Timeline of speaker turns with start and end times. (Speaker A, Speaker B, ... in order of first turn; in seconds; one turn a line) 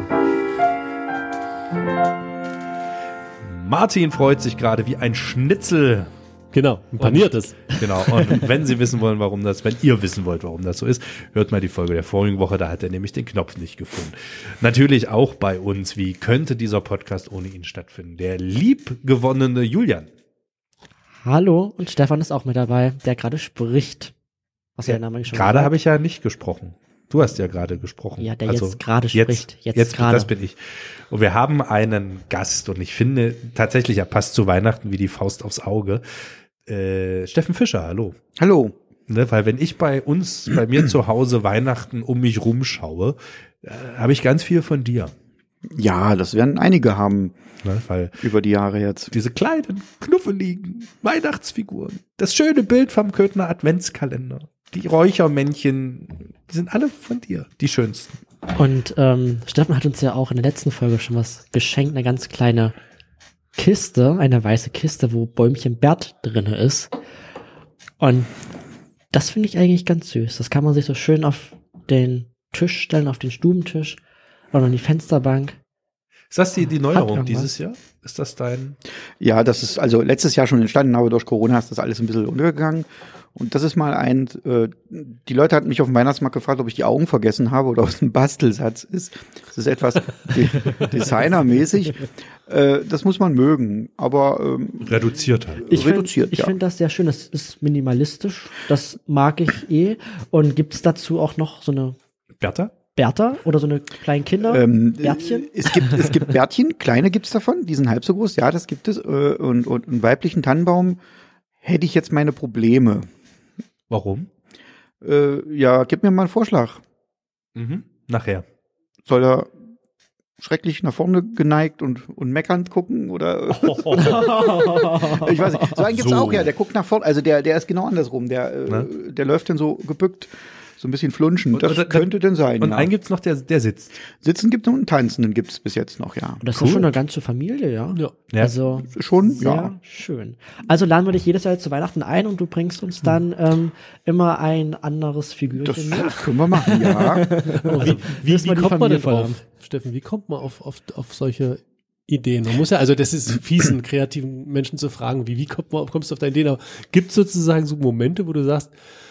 Speaker A: 3.4-6.1
Speaker B: 6.5-7.7
Speaker A: 7.0-20.1
Speaker C: 8.0-8.4
Speaker C: 21.2-24.1
Speaker C: 24.8-25.7
Speaker A: 24.8-38.2
Speaker C: 28.2-30.3
Speaker D: 38.4-38.7
Speaker A: 39.1-45.1
Speaker D: 45.7-47.3
Speaker A: 47.6-48.2
Speaker D: 48.2-49.1
Speaker A: 49.1-58.2
Speaker C: 58.5-62.7
Speaker C: 63.5-66.9
Speaker C: 68.0-68.3
Speaker C: 69.1-74.0
Speaker C: 74.5-75.6
Speaker A: 76.3-78.8
Speaker C: 76.9-77.5
Speaker D: 79.2-96.5
Speaker A: 94.8-95.7
Speaker C: 95.7-102.0
Speaker A: 102.4-102.7
Speaker C: 102.9-106.2
Speaker D: 104.4-111.0
Speaker D: 111.6-113.1
Speaker A: 113.9-114.3
Speaker D: 115.0-116.8
Speaker A: 117.5-118.5
Speaker D: 119.0-119.5
Speaker D: 120.4-132.9
Speaker A: 123.5-124.3
Speaker C: 124.0-125.7
Speaker A: 125.8-126.5
Speaker A: 131.5-134.0
Speaker D: 134.1-136.4
Speaker C: 136.4-149.4
Speaker A: 136.6-136.8
Speaker D: 138.8-139.8
Speaker D: 145.5-147.2
Speaker B: 147.5-158.7